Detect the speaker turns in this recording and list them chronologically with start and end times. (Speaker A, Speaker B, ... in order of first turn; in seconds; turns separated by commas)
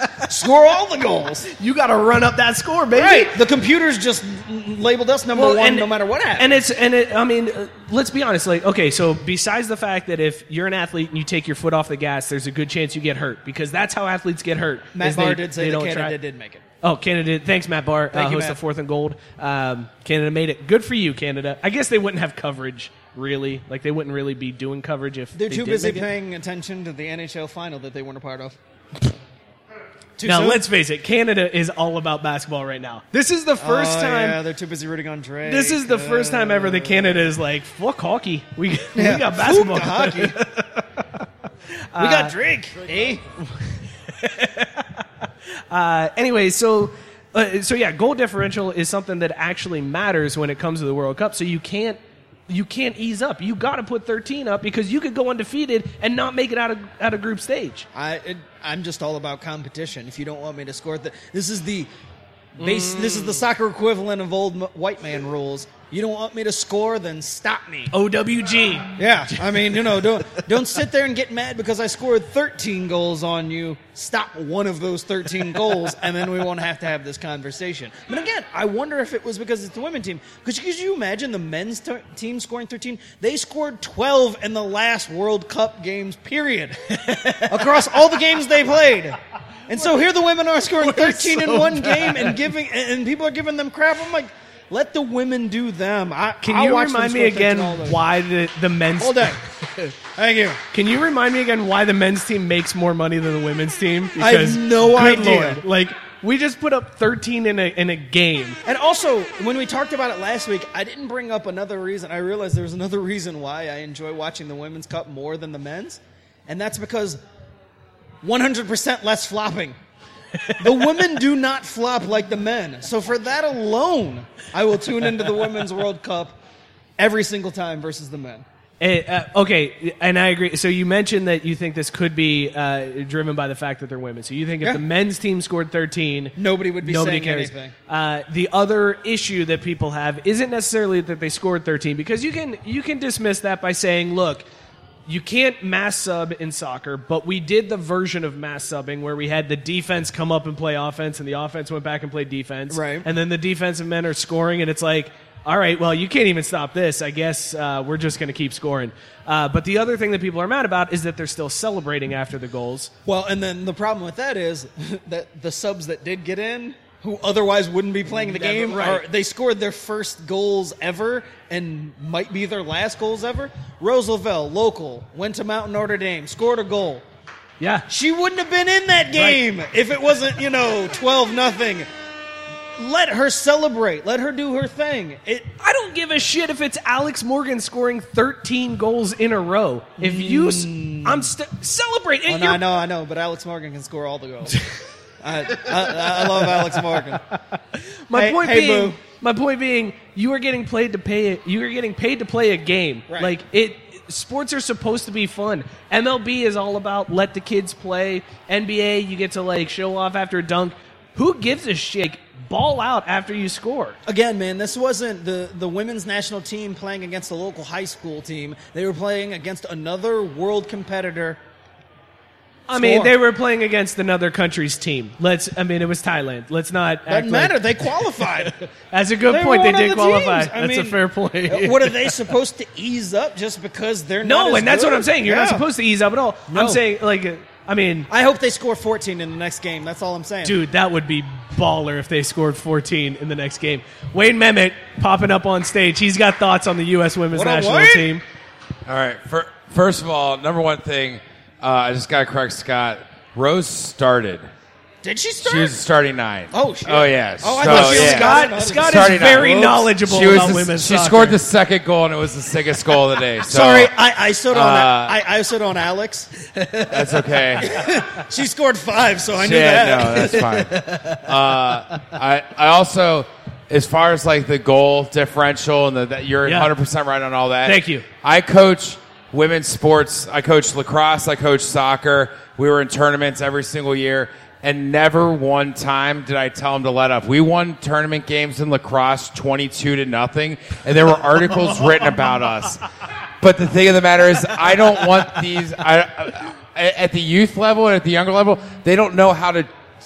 Speaker A: 0.3-1.5, Speaker B: 1.5-3.3, Speaker A: 2.9-6.5, Speaker B: 5.3-16.2, Speaker A: 15.0-16.6, Speaker B: 16.8-26.1, Speaker A: 18.1-18.6, Speaker A: 25.4-28.6, Speaker A: 30.2-30.6, Speaker B: 30.2-34.4, Speaker A: 33.6-37.2, Speaker B: 35.5-41.1, Speaker A: 39.0-40.4, Speaker B: 41.9-42.3, Speaker A: 42.0-43.2, Speaker B: 44.1-45.0, Speaker B: 45.7-57.9, Speaker A: 58.0-61.9, Speaker B: 62.6-63.5, Speaker A: 62.6-67.9, Speaker B: 67.9-70.4, Speaker A: 69.0-86.8, Speaker B: 87.0-87.6, Speaker A: 87.5-89.2, Speaker A: 89.7-98.0, Speaker B: 90.8-92.4, Speaker B: 96.4-99.9, Speaker A: 99.0-99.4, Speaker A: 100.2-100.6, Speaker B: 100.7-108.6, Speaker A: 104.2-105.6, Speaker A: 108.7-117.2, Speaker A: 118.2-119.8, Speaker A: 120.6-126.4, Speaker A: 127.0-128.4, Speaker B: 128.8-144.5, Speaker A: 136.4-137.7, Speaker B: 145.1-162.9, Speaker A: 152.7-153.1, Speaker A: 163.1-177.0, Speaker B: 168.1-169.0, Speaker B: 177.6-177.8, Speaker A: 177.9-181.9, Speaker B: 179.1-179.4, Speaker A: 182.8-185.5, Speaker B: 185.6-192.6, Speaker A: 190.0-191.3, Speaker A: 192.3-194.6, Speaker A: 195.2-197.2, Speaker B: 198.1-214.0, Speaker A: 198.1-199.0, Speaker A: 203.1-203.4, Speaker A: 214.1-221.4, Speaker B: 222.7-227.6, Speaker A: 222.7-223.2, Speaker A: 227.1-228.5, Speaker B: 228.4-232.2, Speaker A: 229.3-235.7, Speaker B: 234.2-238.1, Speaker A: 236.5-236.8, Speaker A: 238.1-240.6, Speaker B: 240.4-248.2, Speaker A: 247.3-248.1, Speaker C: 248.9-254.5, Speaker A: 255.0-255.8, Speaker C: 255.4-263.9, Speaker A: 256.5-260.4, Speaker B: 257.6-261.4, Speaker A: 263.4-266.3, Speaker C: 264.5-265.2, Speaker C: 266.9-267.6, Speaker A: 267.6-270.7, Speaker C: 269.3-292.8, Speaker B: 276.4-276.7, Speaker B: 277.6-278.1, Speaker C: 293.4-299.7